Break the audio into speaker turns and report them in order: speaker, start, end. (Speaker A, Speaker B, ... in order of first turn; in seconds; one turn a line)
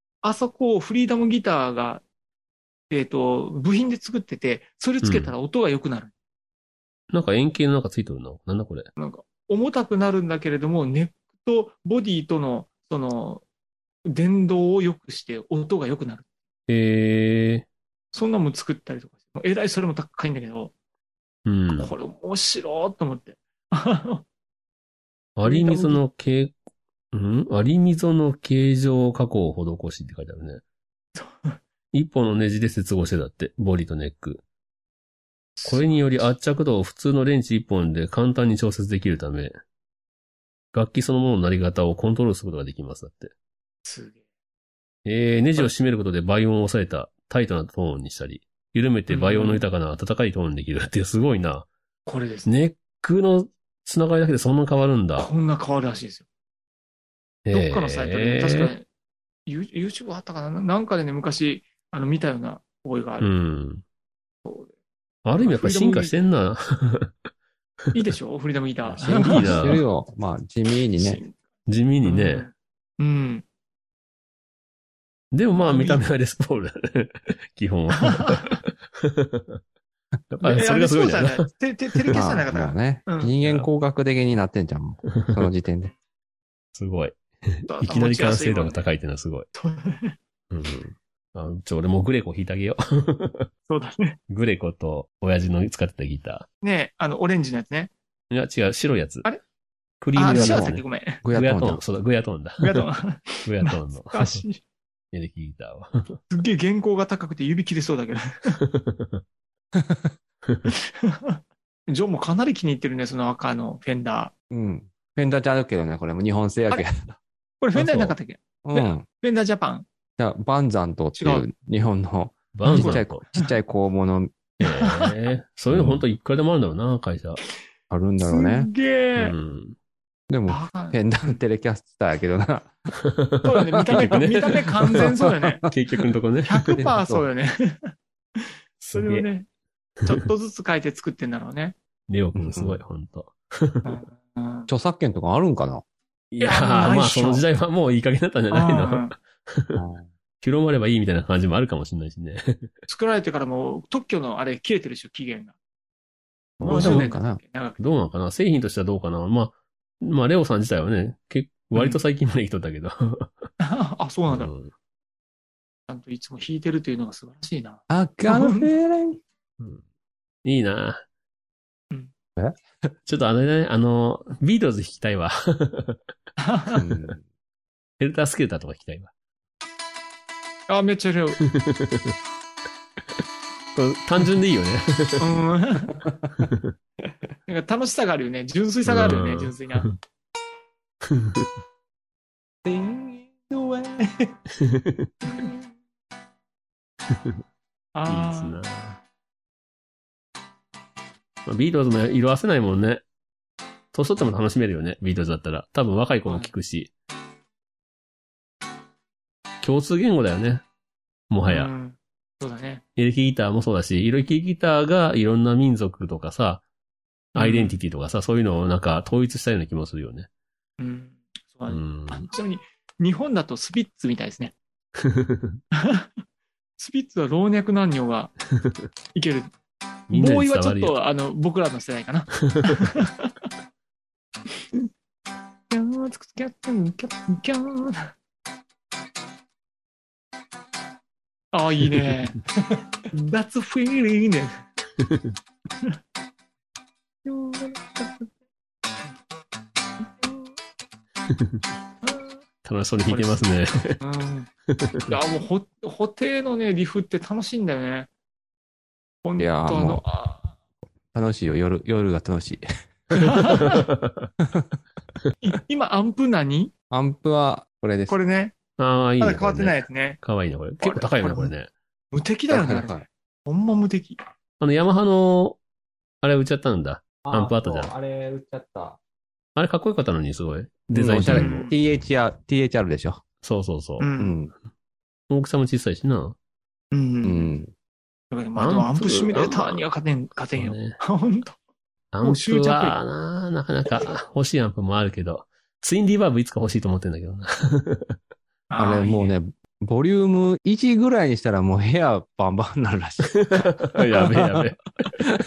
Speaker A: 0.2-2.0
Speaker A: 2.9-6.1
Speaker B: 5.0-5.3
Speaker B: 7.1-8.9
Speaker A: 9.0-13.4
Speaker A: 14.1-16.2
Speaker B: 16.7-17.6
Speaker A: 18.1-20.7
Speaker B: 21.4-21.9
Speaker A: 21.7-24.2
Speaker B: 25.4-26.6
Speaker A: 25.4-26.0
Speaker B: 27.1-30.6
Speaker A: 31.1-31.6
Speaker B: 31.9-34.4
Speaker A: 35.6-36.3
Speaker B: 35.6-39.5
Speaker B: 40.7-43.3
Speaker A: 43.8-44.2
Speaker B: 45.0-51.7
Speaker A: 49.1-49.7
Speaker A: 52.0-52.5
Speaker B: 52.5-55.3
Speaker A: 55.2-56.2
Speaker B: 57.5-58.7
Speaker A: 57.5-58.9
Speaker A: 59.5-63.3
Speaker B: 63.2-63.8
Speaker A: 64.4-64.7
Speaker B: 65.2-67.1
Speaker A: 65.4-66.2
Speaker A: 67.9-69.8
Speaker C: 68.8-71.2
Speaker B: 69.2-69.8
Speaker A: 71.0-71.3
Speaker B: 71.7-72.5
Speaker A: 72.0-73.4
Speaker B: 75.3-79.6
Speaker A: 75.5-76.0
Speaker A: 78.2-78.6
Speaker B: 80.3-82.1
Speaker A: 80.4-83.3
Speaker C: 82.1-85.9
Speaker B: 83.4-83.7
Speaker B: 86.7-87.2
Speaker A: 87.7-88.8
Speaker B: 87.7-89.5
Speaker A: 89.5-90.1
Speaker B: 90.5-93.5
Speaker A: 93.7-94.2
Speaker B: 94.3-96.5
Speaker A: 96.6-97.9
Speaker B: 98.3-99.2
Speaker B: 100.0-100.8
Speaker A: 100.1-101.2
Speaker C: 100.3-101.8
Speaker B: 101.3-102.8
Speaker A: 102.6-104.6
Speaker B: 103.4-104.4
Speaker B: 105.1-106.2
Speaker A: 106.3-108.6
Speaker B: 108.8-109.2
Speaker C: 109.8-110.1
Speaker A: 110.7-114.3
Speaker C: 114.5-117.2
Speaker A: 117.6-119.8
Speaker B: 117.8-118.1
Speaker C: 118.6-119.0
Speaker C: 120.2-124.4
Speaker A: 121.2-121.5
Speaker B: 122.5-123.2
Speaker A: 122.6-123.5
Speaker B: 124.6-127.4
Speaker A: 124.7-125.0
Speaker C: 125.7-126.0
Speaker C: 127.9-128.7
Speaker A: 128.2-129.3
Speaker B: 129.2-129.8
Speaker C: 130.3-132.7
Speaker A: 130.5-131.4
Speaker A: 133.4-135.7
Speaker C: 133.7-134.2
Speaker B: 133.8-136.6
Speaker C: 134.9-135.7
Speaker A: 136.4-139.4
Speaker C: 136.7-137.3
Speaker B: 138.8-139.3
Speaker A: 140.0-141.7
Speaker B: 142.1-144.0
Speaker C: 142.3-142.8
Speaker A: 143.8-144.7
Speaker C: 144.7-145.8
Speaker B: 146.3-149.8
Speaker A: 146.4-147.5
Speaker A: 148.5-149.1
Speaker C: 149.8-150.1
Speaker B: 150.4-152.7
Speaker A: 152.9-155.5
Speaker C: 156.6-157.4
Speaker B: 156.6-157.0
Speaker A: 156.6-157.8
Speaker B: 157.8-163.3
Speaker A: 161.7-162.0
Speaker A: 163.6-164.5
Speaker B: 164.3-164.7
Speaker A: 165.9-168.7
Speaker C: 167.9-169.2
Speaker B: 170.4-171.0
Speaker B: 173.1-176.0
Speaker A: 176.4-176.8
Speaker C: 176.7-177.2
Speaker B: 178.0-179.1
Speaker A: 180.7-181.4
Speaker B: 181.4-182.1
Speaker B: 183.7-185.2
Speaker A: 185.2-185.9
Speaker C: 186.0-186.5
Speaker B: 186.4-186.7
Speaker A: 187.5-189.9
Speaker B: 188.8-189.9
Speaker B: 191.1-191.5
Speaker C: 192.6-194.3
Speaker B: 194.7-195.1
Speaker A: 195.3-195.5
Speaker A: 197.9-198.6
Speaker B: 198.1-199.0
Speaker B: 201.4-203.0
Speaker B: 203.9-206.9
Speaker A: 206.2-206.5
Speaker B: 209.6-210.6
Speaker B: 211.3-211.7
Speaker A: 211.5-212.8
Speaker B: 212.9-216.6
Speaker B: 217.3-220.3
Speaker A: 217.3-217.8
Speaker A: 220.8-224.6
Speaker B: 221.7-222.3
Speaker B: 225.1-225.6
Speaker A: 226.8-228.3
Speaker A: 229.1-229.5
Speaker B: 230.1-230.9
Speaker A: 230.1-233.3
Speaker A: 235.7-238.1
Speaker A: 241.5-242.5
Speaker A: 243.1-244.6
Speaker B: 245.0-245.3
Speaker A: 247.2-248.3
Speaker A: 250.2-250.5
Speaker A: 252.0-252.4
Speaker B: 252.6-254.0
Speaker A: 253.1-253.5
Speaker A: 254.0-254.5
Speaker B: 254.7-255.1
Speaker A: 255.1-258.1
Speaker A: 259.2-260.5
Speaker C: 259.4-260.0
Speaker C: 261.1-263.4
Speaker A: 263.2-263.9
Speaker B: 263.8-264.3
Speaker A: 265.4-266.7
Speaker C: 266.9-268.2
Speaker A: 268.1-268.5
Speaker B: 268.8-271.7
Speaker A: 269.2-270.2
Speaker A: 270.8-271.5
Speaker A: 272.1-274.2
Speaker C: 272.5-273.1
Speaker B: 274.6-275.6
Speaker B: 276.2-277.9
Speaker C: 277.2-279.0
Speaker B: 279.6-281.6
Speaker C: 280.9-283.2
Speaker A: 281.3-281.8
Speaker B: 283.4-284.1
Speaker A: 284.0-284.4
Speaker C: 284.2-284.5
Speaker B: 285.3-286.4
Speaker A: 286.9-287.5
Speaker C: 287.2-287.7
Speaker A: 288.3-291.6
Speaker B: 288.6-289.8
Speaker B: 290.5-291.0
Speaker B: 292.1-298.1
Speaker A: 292.2-293.0
Speaker A: 298.7-299.3
Speaker C: 298.8-303.8
Speaker B: 303.8-304.8